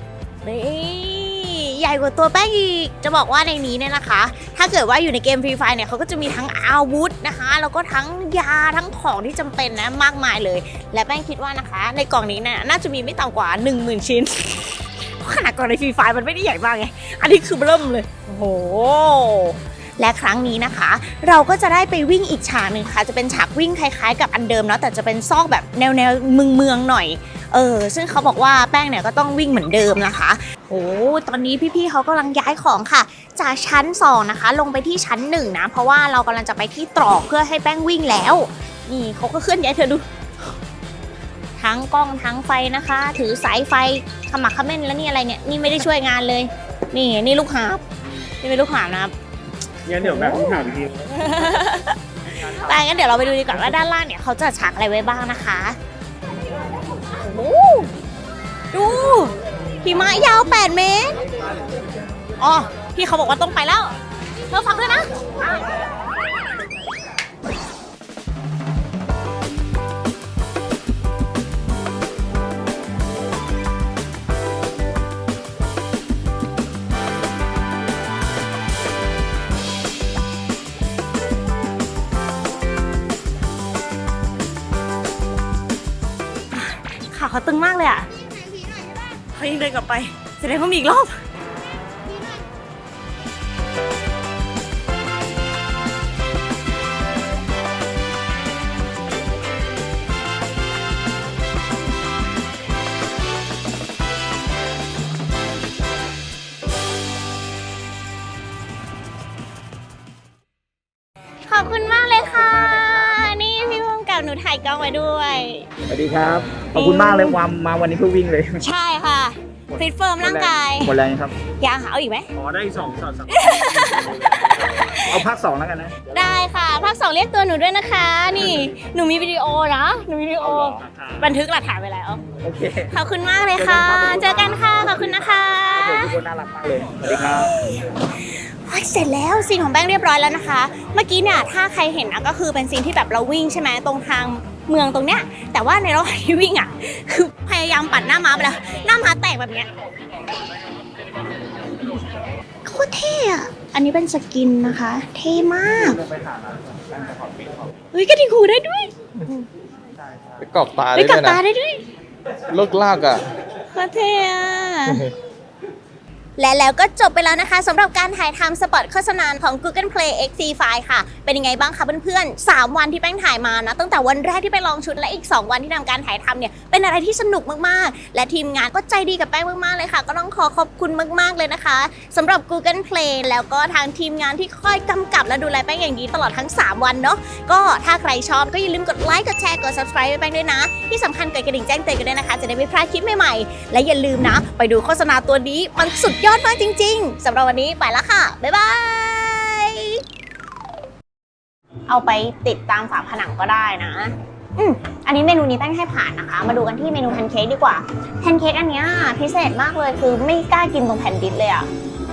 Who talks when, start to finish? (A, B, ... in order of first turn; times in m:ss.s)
0:00.4-0:40.0 A
0:41.6-0:47.8 A
0:48.4-0:49.2 A
0:49.8-0:51.0 B
0:50.0-0:55.8 A
0:57.1-0:57.9 A
0:58.7-1:01.2 A
1:02.4-1:03.9 A
1:04.5-1:05.6 A
1:26.5-1:31.2 A
1:51.5-1:55.7 A
1:55.9-1:58.6 C
1:56.7-1:57.4 A
1:58.6-2:00.9 A
1:59.8-2:01.4 C
2:01.6-2:02.3 A
2:02.4-2:04.4 B
2:03.3-2:05.2 A
2:05.1-2:06.0 C
2:06.0-2:12.2 A
2:10.5-2:10.8 D
2:10.7-2:11.3 B
2:12.4-2:13.0 C
2:12.9-2:16.2 A
2:13.6-2:17.5 C
2:17.1-2:29.7 A
2:32.6-2:36.0 A
2:35.8-2:37.5 C
2:37.9-2:39.5 A
2:40.4-2:41.4 D
2:41.0-2:41.8 A
2:42.5-2:43.2 D
2:43.7-2:45.1 A
2:46.4-3:20.0 A
3:21.9-3:31.7 A